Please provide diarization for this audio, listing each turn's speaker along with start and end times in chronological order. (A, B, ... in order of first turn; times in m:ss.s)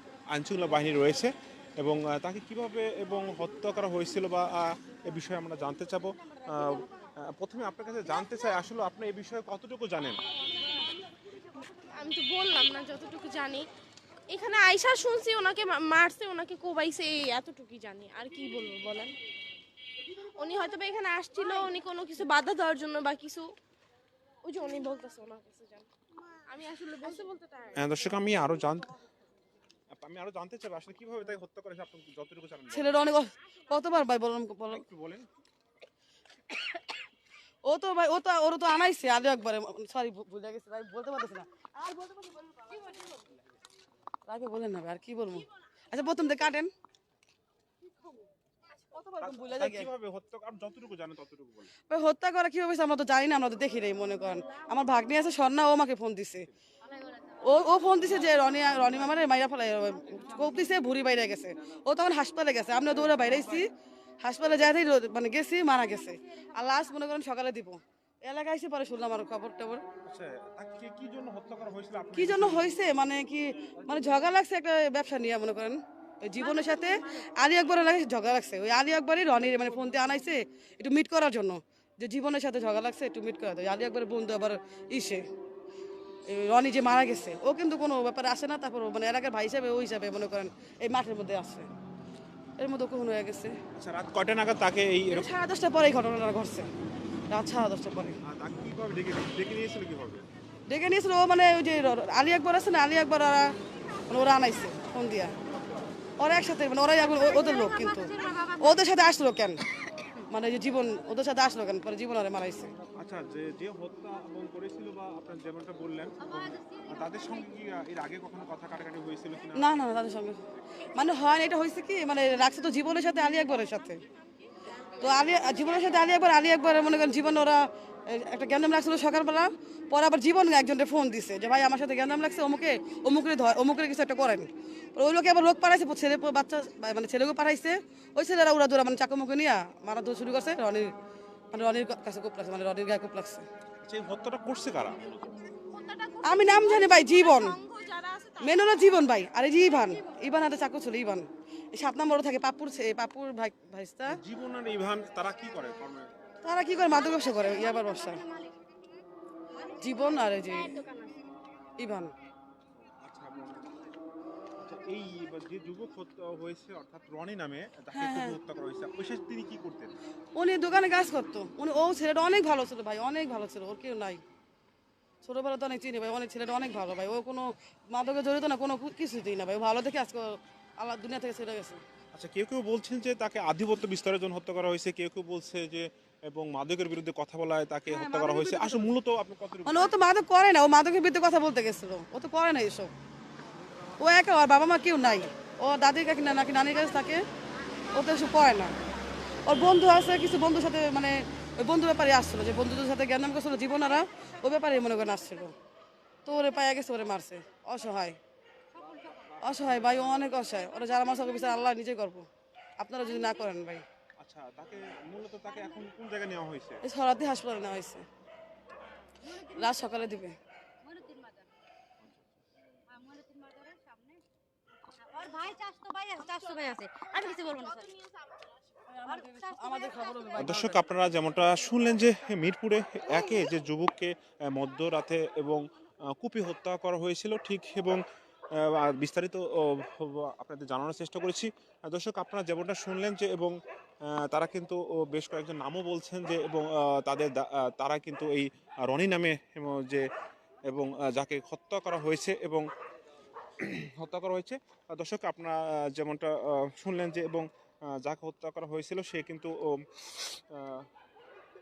0:00.3-0:10.2 A
0:11.9-0:13.7 B
0:14.3-0:19.2 B
0:20.4-0:23.6 B
0:24.4-0:25.9 B
0:26.5-0:27.8 B
0:27.7-0:29.0 A
0:29.9-0:33.0 A
0:32.7-0:34.9 C
0:34.7-0:35.3 A
0:37.6-0:42.7 C
0:44.3-0:46.7 C
0:48.9-0:49.9 C
0:49.2-0:51.7 A
0:51.9-0:56.5 C
0:57.4-1:03.7 C
1:03.0-1:03.6 A
1:04.2-1:09.8 C
1:10.1-1:12.8 A
1:12.1-1:25.2 C
1:13.7-1:14.0 A
1:16.4-1:17.4 B
1:26.3-1:31.7 C
1:32.6-1:33.6 C
1:33.8-1:35.3 A
1:35.1-1:36.7 C
1:37.3-1:38.2 C
1:38.2-1:40.2 A
1:40.7-1:43.5 C
1:44.1-1:45.4 C
1:46.2-1:49.6 C
1:50.2-1:52.7 C
1:53.0-1:59.9 A
1:59.5-2:04.0 C
2:05.0-2:20.9 C
2:21.5-2:23.5 C
2:23.8-2:25.2 A
2:25.6-2:28.8 B
2:26.2-2:27.6 C
2:28.4-2:34.2 C
2:34.1-2:36.1 A
2:36.4-2:38.2 C
2:39.7-2:40.9 C
2:41.8-2:42.1 C
2:43.0-2:43.8 A
2:44.6-2:49.9 A
2:47.9-2:48.4 C
2:50.4-2:54.2 C
2:55.2-3:01.8 C
3:02.1-3:09.9 A
3:07.9-3:09.0 C
3:09.6-3:12.9 C
3:14.0-3:17.2 C
3:17.9-3:18.8 C
3:19.4-3:25.6 C
3:26.2-3:28.2 C
3:29.4-3:32.3 C
3:32.8-3:33.8 C
3:34.2-3:36.8 A
3:36.8-3:38.0 C
3:39.3-3:40.4 C
3:41.0-3:41.4 D
3:42.0-3:42.4 A
3:43.0-3:44.1 D
3:45.0-3:47.9 D
3:47.1-3:47.9 B
3:49.0-3:50.9 C
3:50.4-4:10.1 A
4:10.7-4:12.7 A
4:13.6-4:20.9 A